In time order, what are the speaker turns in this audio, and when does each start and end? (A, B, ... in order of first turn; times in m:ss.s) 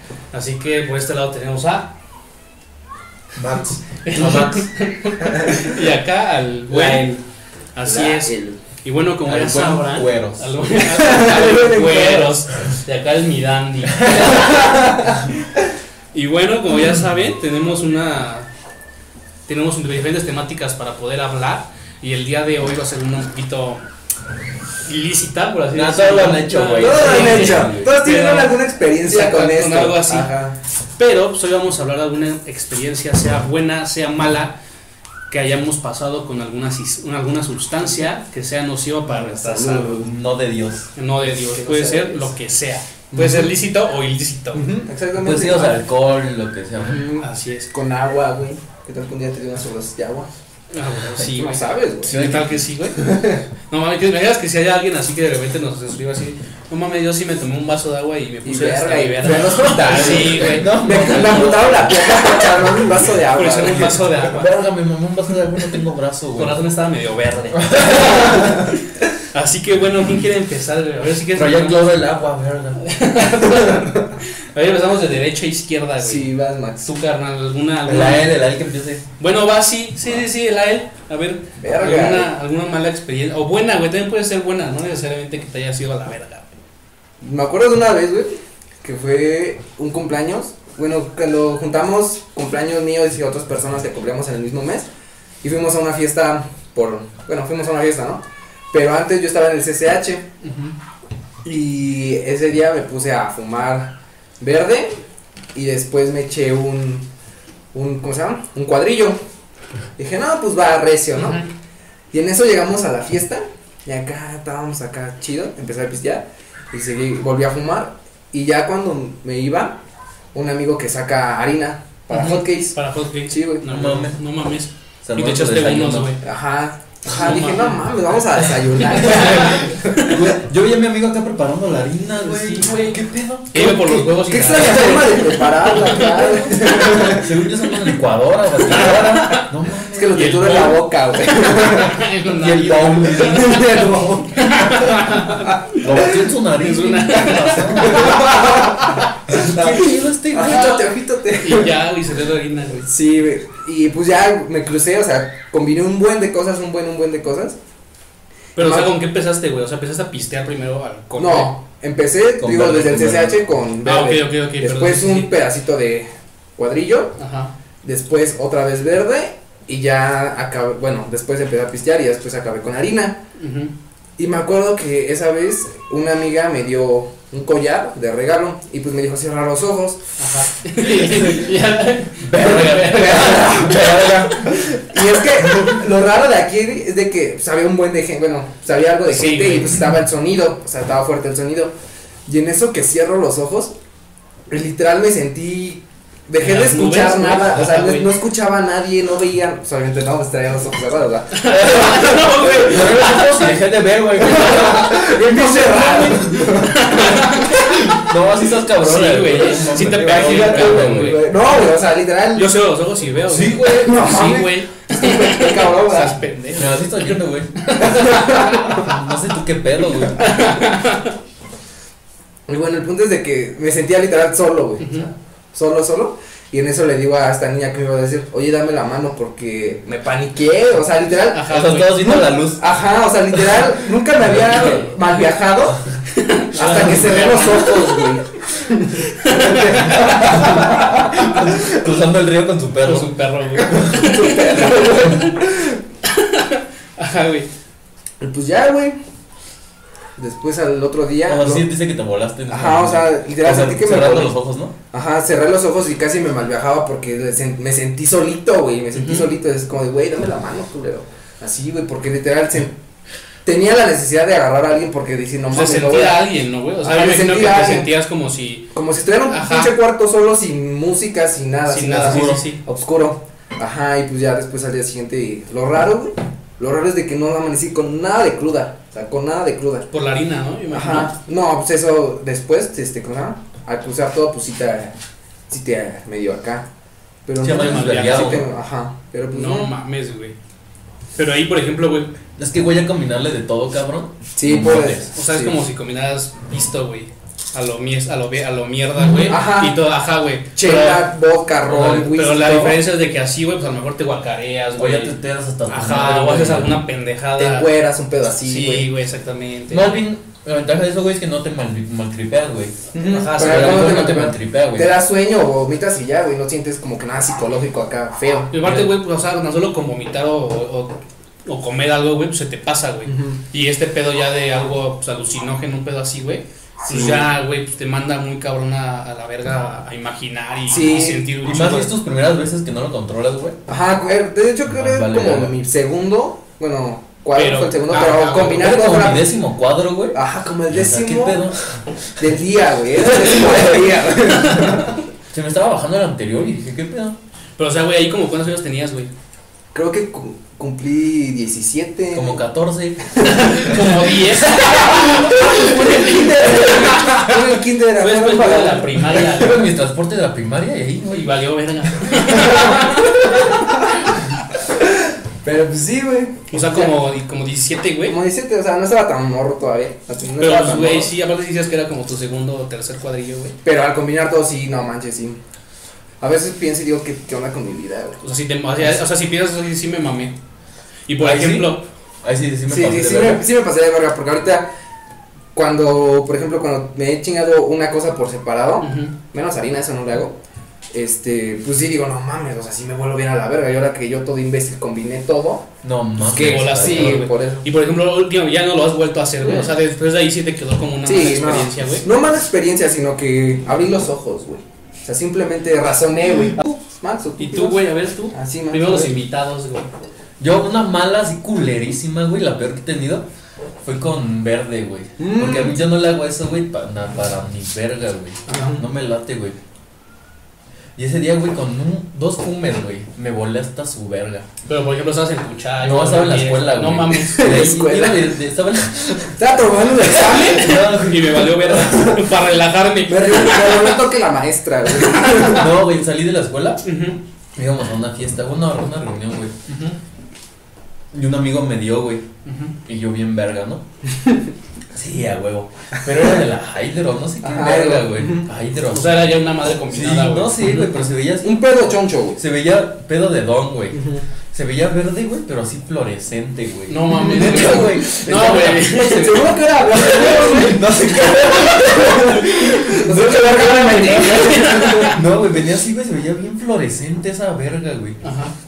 0:00.3-0:01.9 A
0:03.4-0:04.7 B
0:04.0-0:07.2 A
0:06.7-0:07.2 C
0:07.8-0:15.1 A
0:07.9-0:08.6 C
0:09.2-0:10.5 B
0:10.8-0:12.3 C
0:14.0-0:14.3 B
0:14.3-0:15.2 C
0:16.1-0:18.5 A
0:19.5-0:23.8 A
0:24.8-0:30.3 A
0:25.7-0:28.0 B
0:26.8-0:30.6 C
0:31.0-0:34.6 A
0:35.3-0:40.0 A
0:39.1-0:40.1 C
0:39.9-0:40.9 B
0:41.0-0:44.7 A
0:41.3-0:42.3 C
0:43.1-0:43.5 C
0:44.5-0:45.8 C
0:45.1-0:47.0 B
0:46.8-0:50.3 C
0:47.1-0:47.7 A
0:50.7-0:53.1 A
0:51.4-0:52.2 C
0:52.0-0:52.5 B
0:53.0-0:53.4 C
0:53.7-1:01.2 A
0:58.4-1:04.2 C
0:59.8-1:02.9 B
1:03.3-1:04.4 A
1:03.7-1:06.6 B
1:06.4-1:08.8 A
1:07.6-1:08.5 B
1:09.3-1:11.8 A
1:11.4-1:12.8 B
1:12.8-1:16.3 A
1:13.5-1:13.9 C
1:16.0-1:16.9 C
1:16.8-1:18.4 A
1:17.9-1:19.0 B
1:19.2-1:26.5 A
1:21.6-1:22.3 C
1:27.2-1:34.9 C
1:35.4-1:40.2 C
1:40.4-1:40.7 A
1:41.4-1:45.0 C
1:45.6-1:47.0 C
1:47.7-1:49.2 C
1:50.0-1:51.4 C
1:51.2-1:51.5 A
1:52.1-1:59.8 C
2:00.3-2:02.8 C
2:02.1-2:06.2 A
2:03.3-2:03.7 C
2:03.7-2:04.2 B
2:05.0-2:06.1 B
2:06.2-2:10.2 C
2:07.1-2:07.8 A
2:08.8-2:10.2 A
2:09.0-2:14.0 B
2:12.2-2:13.0 A
2:13.5-2:17.2 A
2:13.6-2:17.3 C
2:14.5-2:20.7 B
2:18.7-2:19.4 A
2:19.9-2:22.0 C
2:20.2-2:25.7 A
2:22.4-2:24.0 B
2:23.1-2:25.6 C
2:25.7-2:28.6 B
2:26.6-2:28.5 A
2:27.8-2:31.8 C
2:29.3-2:30.8 B
2:30.4-2:30.8 A
2:31.4-2:32.9 A
2:32.8-2:37.6 C
2:38.6-2:41.5 A
2:38.6-2:38.9 C
2:41.2-2:47.2 C
2:42.4-2:43.4 B
2:43.8-2:45.3 A
2:47.2-2:47.5 A
2:47.8-2:53.2 C
2:53.4-2:53.7 A
2:54.2-3:00.0 C
3:00.2-3:05.7 A
3:00.9-3:01.6 B
3:02.2-3:04.6 B
3:02.5-3:11.7 C
3:09.0-3:09.8 A
3:12.3-3:13.7 C
3:14.5-3:22.6 C
3:16.4-3:18.1 A
3:21.3-3:23.5 A
3:21.5-3:31.3 B
3:24.2-3:27.1 C
3:25.3-3:28.0 A
3:28.8-3:31.7 A
3:29.8-3:32.6 C
3:32.3-3:38.9 A
3:33.3-3:34.2 B
3:33.6-3:36.2 C
3:36.6-3:37.7 B
3:37.8-3:39.0 C
3:38.7-3:40.4 B
3:40.2-3:41.2 A
3:42.5-3:55.8 C
3:44.8-3:45.1 A
3:51.3-3:52.0 A
3:51.5-3:52.6 B
3:53.4-3:54.9 B
3:56.1-3:58.1 A
3:56.6-4:01.1 C
3:56.6-3:56.9 B
3:59.0-4:00.7 A
3:59.8-4:04.1 B
4:02.8-4:05.4 A
4:03.6-4:05.8 C
4:06.0-4:07.5 A
4:08.2-4:09.0 C
4:10.2-4:11.6 C
4:11.3-4:14.7 B
4:12.5-4:14.3 C
4:14.9-4:22.8 C
4:18.9-4:19.3 A
4:23.4-4:26.3 C
4:25.5-4:28.7 A
4:26.8-4:27.9 C
4:28.7-4:39.9 C
4:29.3-4:29.7 A
4:31.7-4:32.6 A
4:32.0-4:32.5 B
4:39.9-4:41.2 A
4:40.7-4:44.9 C
4:45.5-4:46.7 C
4:47.3-4:49.8 C
4:47.4-4:48.5 B
4:47.5-4:48.5 A
4:49.3-4:50.4 A
4:51.2-4:52.1 A
4:52.4-4:55.0 B
4:54.4-4:55.6 C
4:55.1-5:01.1 A
4:59.0-4:59.3 B
4:59.3-4:59.8 C
5:00.6-5:02.8 C
5:01.6-5:02.2 B
5:02.1-5:05.1 A
5:04.7-5:06.8 B
5:05.7-5:07.7 A
5:07.4-5:08.9 C
5:08.4-5:09.9 A
5:09.7-5:12.7 B
5:12.9-5:18.5 C
5:13.1-5:14.2 A
5:13.4-5:14.9 B
5:18.5-5:20.9 A
5:18.6-5:18.9 B
5:21.5-5:31.9 A
5:23.1-5:23.4 C
5:26.8-5:27.3 C
5:30.7-5:31.3 C
5:31.4-5:33.6 B
5:33.7-5:39.3 C
5:34.7-5:35.5 B
5:37.4-5:38.7 A
5:38.5-5:41.8 B
5:40.1-5:41.4 C
5:42.2-5:44.9 C
5:44.4-5:44.9 A
5:45.3-5:47.2 B
5:47.6-5:49.1 A
5:49.7-5:52.4 C
5:52.1-5:53.0 B
5:53.2-5:59.6 A
5:54.5-5:57.0 B
5:54.6-5:55.0 C
5:55.6-5:59.2 C
5:59.2-6:01.4 B
6:01.1-6:03.8 A
6:02.1-6:03.4 B
6:04.7-6:07.0 C
6:06.5-6:08.2 A
6:08.0-6:11.1 C
6:10.4-6:13.6 A
6:13.6-6:15.4 C
6:16.2-6:18.2 C
6:18.2-6:20.3 A
6:21.1-6:21.8 A
6:21.2-6:23.5 B
6:22.7-6:24.7 C
6:25.6-6:30.4 C
6:28.8-6:29.1 A
6:30.9-6:35.7 C
6:35.8-6:37.3 B
6:36.2-6:37.6 C
6:36.3-6:42.1 A
6:39.4-6:39.7 C
6:41.0-6:47.8 C
6:47.4-6:49.9 A
6:48.3-6:49.2 C
6:50.4-6:53.3 B
6:53.8-6:59.6 B
6:55.2-6:55.8 C
6:58.5-6:58.8 A
7:01.0-7:04.5 B
7:04.7-7:07.7 A
7:05.8-7:12.0 B
7:07.2-7:08.3 C
7:09.3-7:10.8 C
7:10.0-7:14.0 A
7:13.1-7:15.7 C
7:15.3-7:16.8 B
7:16.8-7:17.2 A
7:17.6-7:19.6 B
7:19.7-7:20.0 A
7:21.1-7:22.2 B
7:22.4-7:22.8 A
7:22.8-7:23.8 B
7:24.9-7:31.8 B
7:27.4-7:28.5 C
7:28.9-7:31.0 A
7:31.4-7:32.4 C
7:32.4-7:48.2 B
7:33.9-7:34.2 C
7:36.9-7:39.4 A
7:37.1-7:45.2 C
7:43.8-7:45.2 A
7:48.2-7:48.5 A